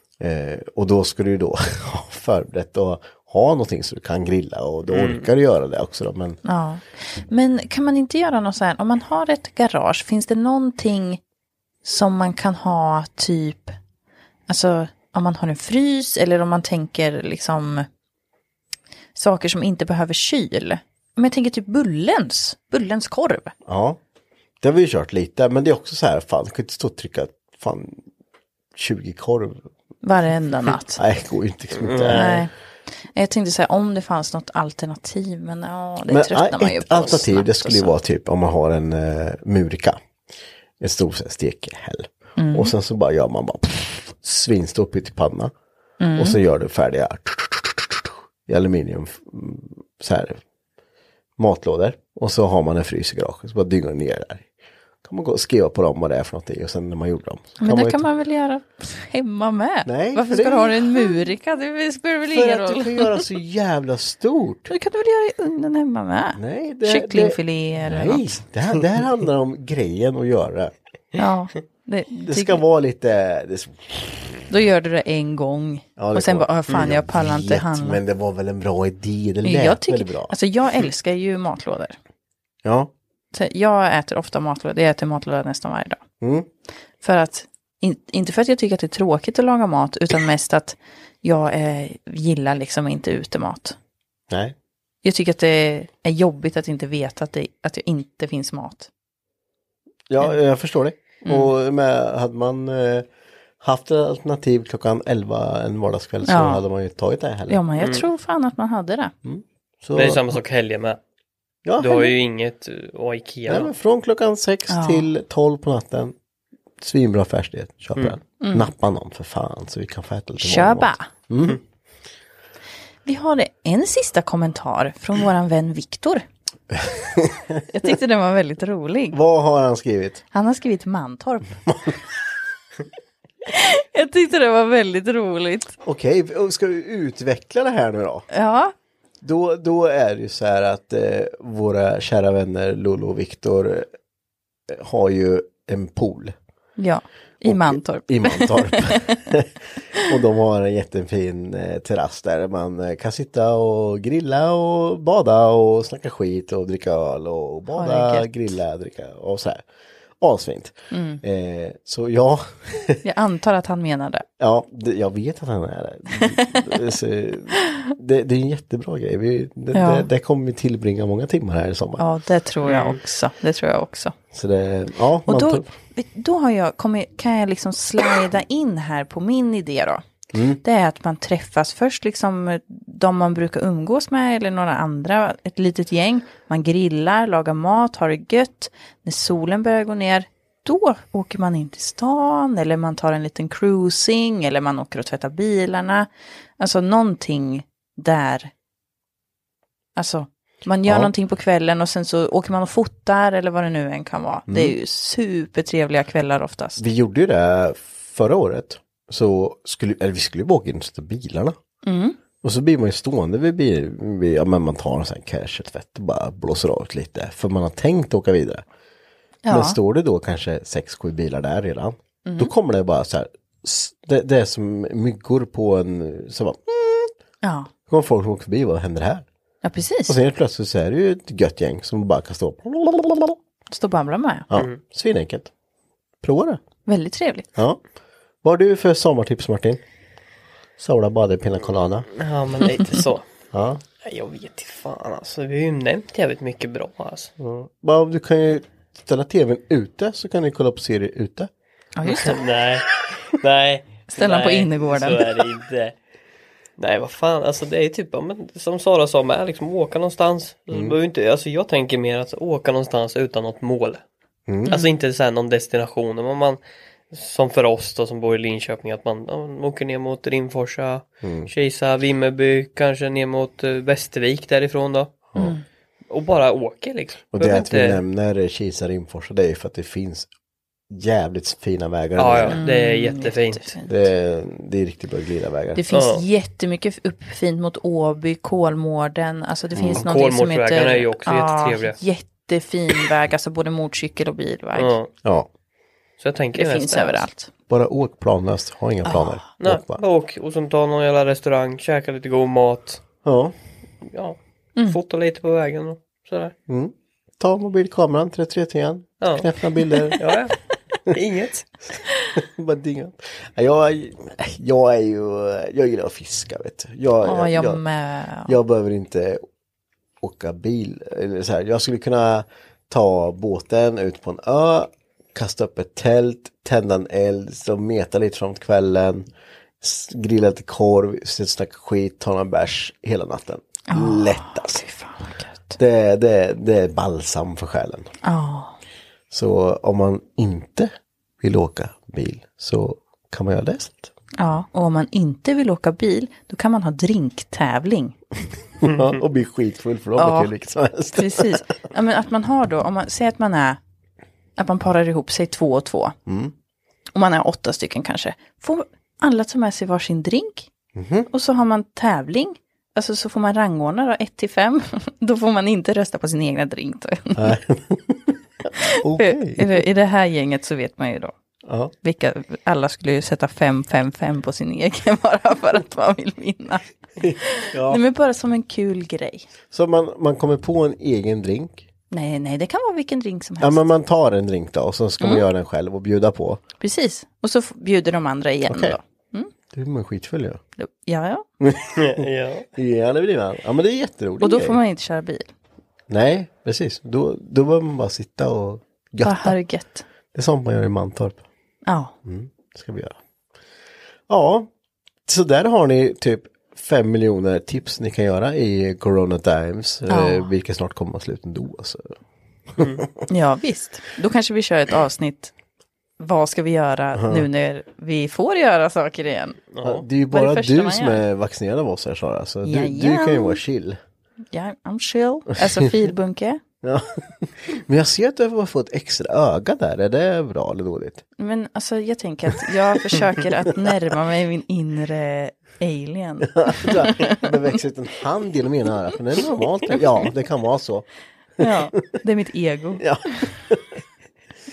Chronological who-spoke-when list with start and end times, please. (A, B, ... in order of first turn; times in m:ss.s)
0:00.2-0:06.4 A
0:04.9-0:05.2 B
0:06.4-0:11.2 C
0:11.8-0:13.8 C
0:14.5-0:17.9 C
0:19.2-0:23.5 C
0:23.7-0:24.0 A
0:24.6-0:28.0 A
0:28.8-0:29.7 A
0:30.0-0:31.0 C
0:31.0-0:32.4 A
0:31.8-0:32.4 B
0:32.1-0:32.5 C
0:33.1-0:37.9 C
0:36.1-0:40.0 A
0:40.8-0:45.5 A
0:42.4-0:42.7 C
0:46.0-0:46.4 C
0:46.2-0:50.4 A
0:51.4-0:54.5 A
0:55.0-0:58.0 A
0:57.6-1:03.2 C
0:59.8-1:01.3 A
1:02.3-1:04.7 A
1:04.7-1:08.4 C
1:06.4-1:10.7 A
1:11.2-1:12.6 C
1:12.2-1:14.4 A
1:14.5-1:18.0 C
1:16.0-1:20.3 A
1:19.4-1:22.0 C
1:22.6-1:22.9 A
1:23.3-1:26.0 C
1:26.2-1:26.5 A
1:27.0-1:33.8 C
1:34.3-1:34.6 A
1:35.0-1:38.9 C
1:40.1-1:43.1 A
1:41.2-1:41.5 C
1:43.6-1:47.6 A
1:46.2-1:46.6 C
1:47.5-1:49.1 C
1:47.8-1:48.0 B
1:49.2-1:50.4 A
1:50.0-1:51.0 B
1:51.6-1:52.1 A
1:51.8-1:53.7 B
1:53.5-1:56.2 A
1:54.7-1:55.1 C
1:56.8-2:01.6 A
1:58.4-1:58.7 C
2:00.4-2:01.1 C
2:03.0-2:06.2 C
2:06.7-2:07.9 A
2:07.7-2:09.2 C
2:09.1-2:10.2 A
2:10.3-2:11.6 C
2:13.5-2:15.8 C
2:15.8-2:18.3 A
2:18.3-2:18.7 C
2:19.2-2:23.9 A
2:24.7-2:26.3 A
2:26.8-2:29.2 C
2:27.4-2:39.6 A
2:37.7-2:38.3 C
2:40.2-2:43.0 A
2:40.9-2:41.2 C
2:43.0-2:44.2 C
2:44.4-2:52.0 A
2:46.1-2:46.7 C
2:49.7-2:50.1 C
2:52.0-2:54.2 C
2:52.6-2:53.0 B
2:54.3-2:55.7 A
2:55.3-3:00.0 C
3:00.3-3:00.6 A
3:00.6-3:18.5 C
3:20.0-3:26.8 C
3:20.9-3:21.1 A
3:24.5-3:24.8 A
3:26.8-3:31.6 A
3:31.8-3:32.2 C
3:32.4-3:38.6 A
3:39.4-3:39.8 C
3:39.5-3:47.1 A
3:42.3-3:42.5 C
3:47.4-3:47.7 C
3:47.9-3:49.3 A
3:49.6-3:50.2 C
3:50.1-3:53.4 A
3:53.7-3:54.5 C
3:54.5-3:55.5 A
3:56.2-3:56.6 A
3:56.9-3:57.5 C
3:57.6-3:57.8 A
3:58.4-3:59.8 A
4:00.8-4:02.1 A
4:02.2-4:03.2 B
4:03.5-4:03.8 A
4:04.0-4:07.3 B
4:07.4-4:11.5 A
4:12.0-4:12.4 C
4:12.1-4:16.0 B
4:14.1-4:15.2 C
4:16.8-4:24.0 B
4:20.7-4:21.0 A
4:24.5-4:24.8 A
4:24.7-4:26.6 B
4:27.1-4:35.2 B
4:31.2-4:31.5 A
4:35.4-4:35.6 C
4:36.1-4:38.0 B
4:37.3-4:40.3 A
4:40.9-4:42.6 A
4:42.2-4:43.7 B
4:42.6-4:43.9 C
4:43.9-4:45.8 A
4:45.8-4:55.0 C
4:45.9-4:46.2 B
4:49.8-4:50.0 A
4:50.0-4:52.0 B
4:54.8-4:55.1 B
4:55.2-4:55.5 A
4:56.2-4:57.3 B
4:56.6-4:57.5 C
4:57.7-5:00.0 A
4:59.0-4:59.4 C
4:59.6-5:03.0 B
5:03.2-5:03.5 A
5:04.1-5:06.5 B
5:06.7-5:10.2 A
5:09.2-5:09.5 B
5:10.2-5:10.6 B
5:11.1-5:11.8 B
5:12.4-5:17.8 A
5:17.2-5:18.6 C
5:18.4-5:19.4 A
5:20.2-5:29.3 A
5:29.8-5:34.8 A
5:33.9-5:35.8 C
5:35.8-5:38.1 A
5:38.2-5:38.8 C
5:39.3-5:44.1 A
5:44.4-5:48.2 C
5:48.8-5:51.7 A
5:50.2-5:50.5 C
5:51.1-5:53.8 C
5:54.6-5:56.2 C
5:56.3-5:56.5 A
5:57.2-6:00.7 C
6:01.0-6:01.3 A
6:01.3-6:07.6 C
6:07.4-6:09.8 A
6:08.8-6:11.4 C
6:11.6-6:11.9 A
6:12.0-6:16.8 C
6:17.2-6:18.0 A
6:17.4-6:19.5 C
6:19.7-6:21.9 A
6:22.1-6:23.9 C
6:23.6-6:26.6 A
6:25.2-6:25.4 C
6:26.8-6:29.5 C
6:28.7-6:29.0 A
6:29.7-6:30.6 A
6:30.8-6:31.5 C
6:31.6-6:34.8 A
6:32.0-6:32.7 B
6:34.4-6:35.5 C
6:36.1-6:39.6 A
6:39.2-6:40.0 C
6:40.3-6:41.4 A
6:41.9-6:42.2 C
6:42.2-6:43.2 A
6:44.3-6:44.7 A
6:45.3-6:52.1 A
6:50.1-6:50.5 C
6:52.8-6:53.1 A
6:52.8-6:53.0 B
6:53.3-6:55.5 C
6:56.2-6:59.6 C
6:57.1-6:57.5 A
6:59.7-7:00.0 B
6:59.8-7:04.0 A
7:00.3-7:01.2 C
7:02.6-7:03.6 C
7:04.5-7:06.6 C
7:06.8-7:11.2 A
7:11.4-7:17.5 C
7:16.5-7:21.1 A
7:21.6-7:23.1 C
7:23.0-7:24.0 A